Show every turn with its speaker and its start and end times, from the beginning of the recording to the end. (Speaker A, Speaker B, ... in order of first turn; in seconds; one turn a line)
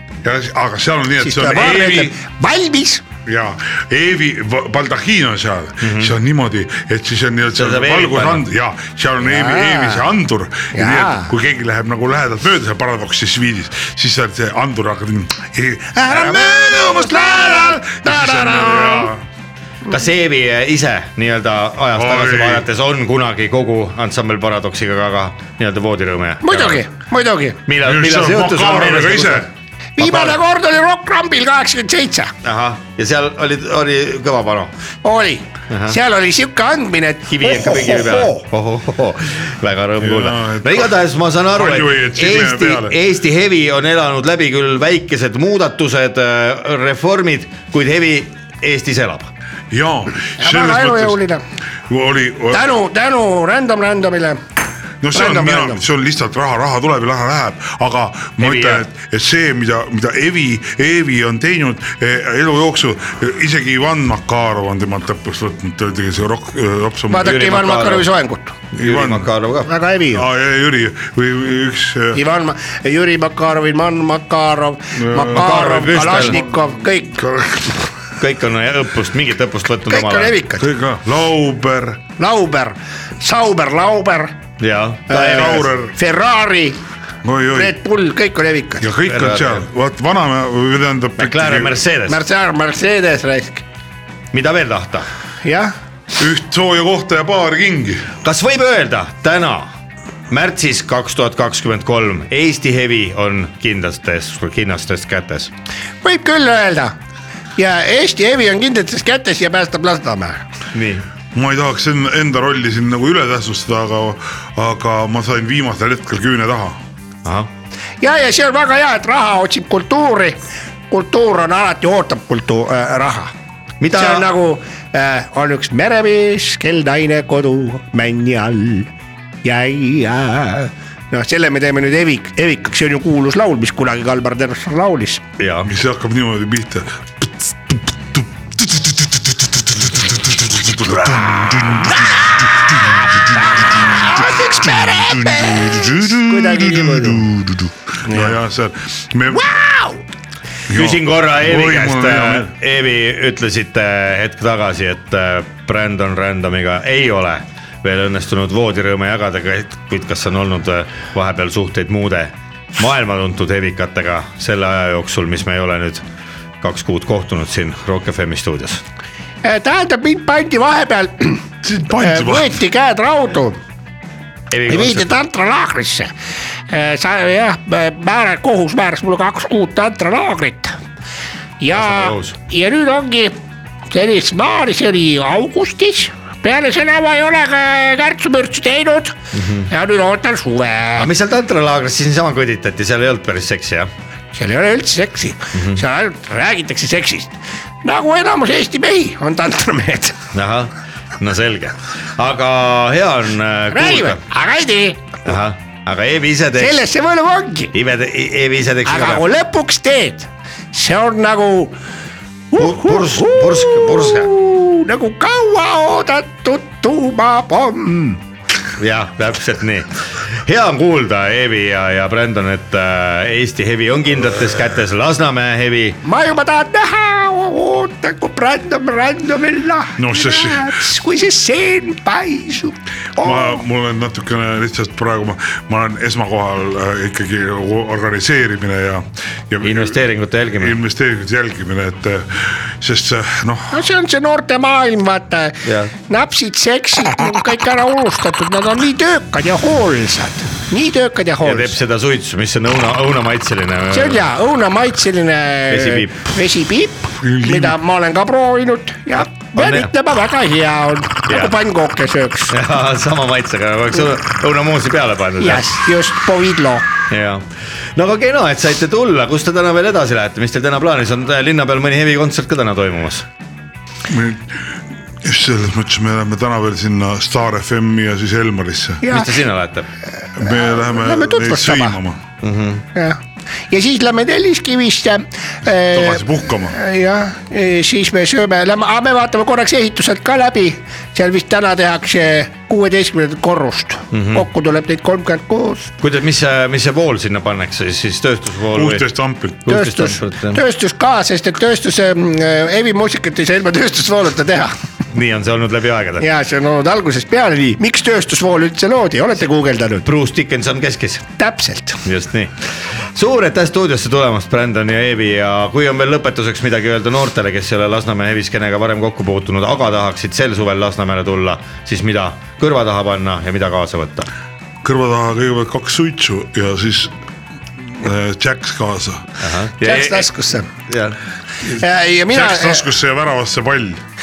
Speaker A: 0.2-2.2
Speaker B: 1.2-3.0
Speaker A: 3.2-19.2
Speaker C: 5.8-6.1
Speaker C: 7.6-8.4
Speaker B: 9.2-10.1
Speaker B: 10.7-11.3
Speaker B: 16.2-19.1
Speaker C: 19.9-26.8
Speaker A: 21.9-22.6
Speaker B: 26.4-27.6
Speaker C: 27.7-30.4
Speaker A: 27.8-29.5
Speaker B: 30.0-32.3
Speaker C: 32.4-34.7
Speaker B: 35.0-38.4
Speaker C: 35.7-36.0
Speaker C: 37.3-49.3
Speaker A: 40.0-43.0
Speaker A: 49.7-51.2
Speaker B: 50.4-51.4
Speaker A: 51.9-52.7
Speaker B: 52.5-54.4
Speaker A: 55.0-67.5
Speaker B: 55.1-55.8
Speaker C: 58.4-58.8
Speaker B: 67.1-68.6
Speaker C: 67.2-68.1
Speaker C: 68.7-69.7
Speaker A: 68.8-69.3
Speaker B: 69.7-70.2
Speaker A: 70.1-72.2
Speaker B: 72.1-77.2
Speaker A: 74.9-76.5
Speaker C: 75.3-76.4
Speaker A: 77.2-77.8
Speaker C: 78.2-80.3
Speaker B: 79.9-80.7
Speaker A: 80.6-82.0
Speaker B: 82.2-84.3
Speaker C: 84.6-85.7
Speaker B: 85.1-86.8
Speaker A: 85.1-85.9
Speaker A: 87.2-87.8
Speaker B: 87.5-88.9
Speaker A: 88.8-91.8
Speaker C: 89.1-89.6
Speaker C: 91.2-92.2
Speaker B: 92.1-93.6
Speaker C: 94.3-95.1
Speaker B: 95.4-95.7
Speaker A: 96.1-98.1
Speaker C: 98.2-99.7
Speaker C: 100.3-105.5
Speaker B: 106.0-106.9
Speaker B: 107.5-110.4
Speaker C: 110.7-111.0
Speaker A: 111.3-116.8
Speaker B: 118.0-123.3
Speaker C: 123.8-124.3
Speaker B: 123.9-128.9
Speaker B: 129.4-135.2
Speaker C: 135.4-135.7
Speaker A: 135.6-149.6
Speaker B: 143.8-147.3
Speaker B: 148.0-148.4
Speaker B: 149.3-150.0
Speaker A: 150.7-152.5
Speaker C: 150.7-166.0
Speaker C: 166.6-168.8
Speaker B: 169.4-171.4
Speaker A: 171.6-172.6
Speaker B: 172.0-173.6
Speaker C: 174.5-175.2
Speaker B: 174.7-176.1
Speaker B: 176.7-180.8
Speaker B: 181.6-183.3
Speaker C: 181.7-182.3
Speaker B: 183.9-189.1
Speaker C: 189.3-189.7
Speaker B: 189.7-191.1
Speaker C: 191.0-193.9
Speaker B: 194.3-200.2
Speaker C: 195.5-195.8
Speaker C: 200.3-204.2
Speaker B: 203.7-205.2
Speaker C: 205.2-206.8
Speaker B: 206.6-207.7
Speaker C: 207.7-209.3
Speaker B: 208.8-211.7
Speaker B: 212.5-218.2
Speaker C: 212.6-214.3
Speaker C: 218.8-226.0
Speaker B: 226.0-233.6
Speaker A: 230.0-230.8
Speaker A: 233.2-240.0
Speaker C: 239.6-240.8
Speaker A: 240.5-243.9
Speaker B: 243.7-251.8
Speaker C: 245.6-245.9
Speaker C: 251.4-254.2
Speaker B: 253.9-262.6
Speaker C: 255.7-256.3
Speaker A: 257.2-257.8
Speaker C: 259.1-259.9
Speaker C: 261.3-261.5
Speaker C: 262.5-265.7
Speaker B: 265.4-266.9
Speaker C: 267.1-267.4
Speaker C: 267.9-273.2
Speaker A: 274.1-279.1
Speaker B: 279.0-279.4
Speaker C: 279.1-279.9
Speaker A: 280.4-282.2
Speaker B: 280.4-282.0
Speaker C: 282.4-282.8
Speaker B: 283.7-295.9
Speaker A: 285.9-286.8
Speaker C: 294.1-294.4
Speaker C: 296.0-299.1
Speaker A: 298.7-299.7
Speaker C: 299.6-300.6
Speaker B: 299.7-304.7
Speaker C: 305.1-306.3
Speaker B: 306.2-310.1
Speaker C: 310.0-311.2
Speaker B: 311.4-312.0
Speaker C: 312.0-312.5
Speaker C: 313.1-324.3
Speaker A: 324.8-327.1
Speaker A: 327.8-329.3
Speaker C: 329.4-330.3
Speaker B: 329.8-330.7
Speaker C: 330.9-331.2
Speaker B: 331.6-332.8
Speaker A: 332.3-334.0